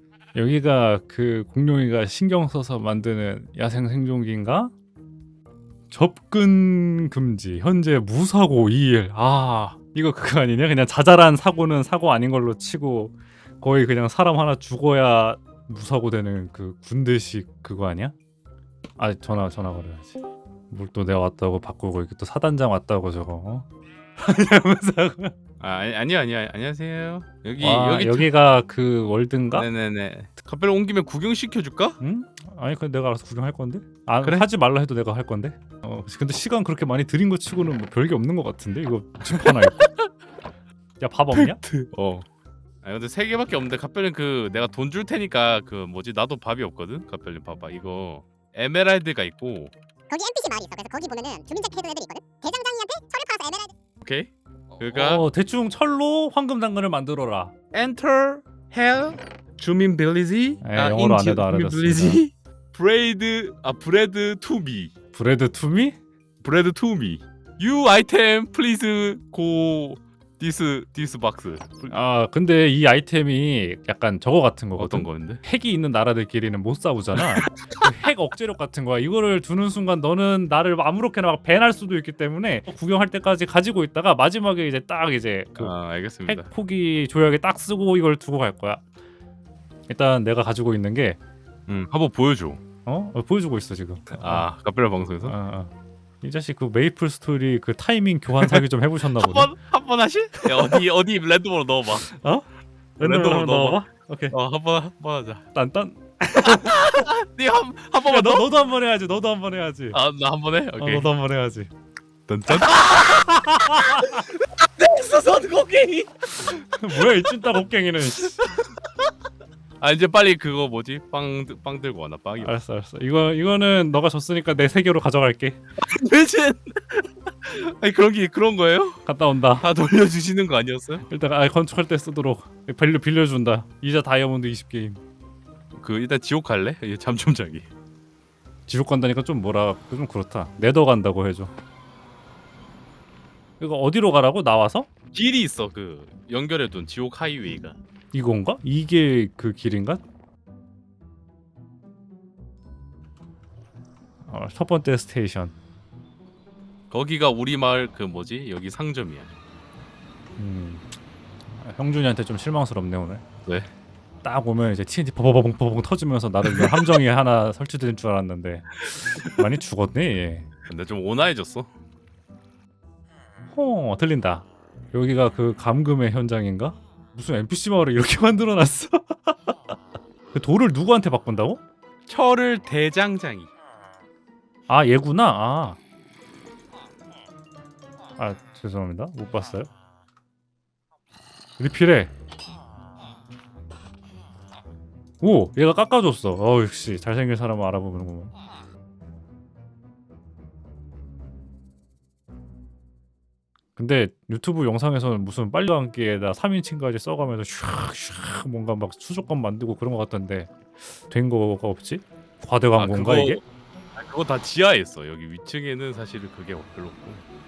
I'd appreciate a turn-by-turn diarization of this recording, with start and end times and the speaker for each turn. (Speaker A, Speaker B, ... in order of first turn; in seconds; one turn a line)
Speaker A: 0.3-4.7
Speaker A: 5.9-18.1
Speaker A: 19.0-20.1
Speaker A: 20.7-23.7
Speaker A: 24.2-25.3
Speaker B: 25.6-28.3
Speaker A: 27.6-29.7
Speaker B: 29.5-32.0
Speaker A: 32.0-39.9
Speaker B: 39.4-40.1
Speaker A: 41.0-41.6
Speaker B: 41.4-42.3
Speaker B: 42.8-49.7
Speaker C: 50.1-53.7
Speaker B: 54.0-55.2
Speaker A: 54.9-57.5
Speaker B: 57.7-64.9
Speaker A: 60.6-62.2
Speaker A: 65.1-66.0
Speaker B: 66.4-72.0
Speaker A: 71.9-85.8
Speaker B: 74.8-75.4
Speaker B: 77.2-77.8
Speaker B: 85.6-86.5
Speaker A: 86.3-88.8
Speaker A: 89.9-91.2
Speaker B: 91.7-92.6
Speaker A: 92.9-94.5
Speaker B: 94.2-95.4
Speaker A: 95.2-99.5
Speaker B: 98.4-102.1
Speaker A: 100.4-100.8
Speaker A: 102.1-102.5
Speaker A: 103.0-104.4
Speaker B: 103.0-105.5
Speaker A: 105.5-107.1
Speaker B: 106.4-108.5
Speaker A: 108.0-110.0
Speaker B: 109.9-111.1
Speaker A: 110.8-111.7
Speaker B: 112.3-117.3
Speaker A: 112.5-114.2
Speaker A: 116.5-118.6
Speaker B: 118.4-118.7
Speaker B: 119.8-122.5
Speaker A: 122.4-125.6
Speaker B: 125.8-129.1
Speaker A: 129.1-129.7
Speaker B: 129.6-131.1
Speaker A: 131.1-135.0
Speaker B: 135.7-137.7
Speaker A: 138.7-141.5
Speaker A: 143.6-144.9
Speaker B: 145.1-147.8
Speaker A: 148.1-150.0
Speaker A: 154.3-155.5
Speaker B: 156.9-159.3
Speaker A: 160.4-160.9
Speaker A: 161.5-163.2
Speaker A: 164.2-170.5
Speaker B: 170.7-171.7
Speaker A: 173.5-179.7
Speaker A: 180.3-181.6
Speaker B: 182.1-183.5
Speaker A: 184.7-185.8
Speaker A: 188.2-189.7
Speaker A: 191.6-192.1
Speaker A: 195.2-198.3
Speaker A: 203.8-210.5
Speaker A: 211.1-213.4
Speaker B: 212.8-213.4
Speaker B: 213.9-217.2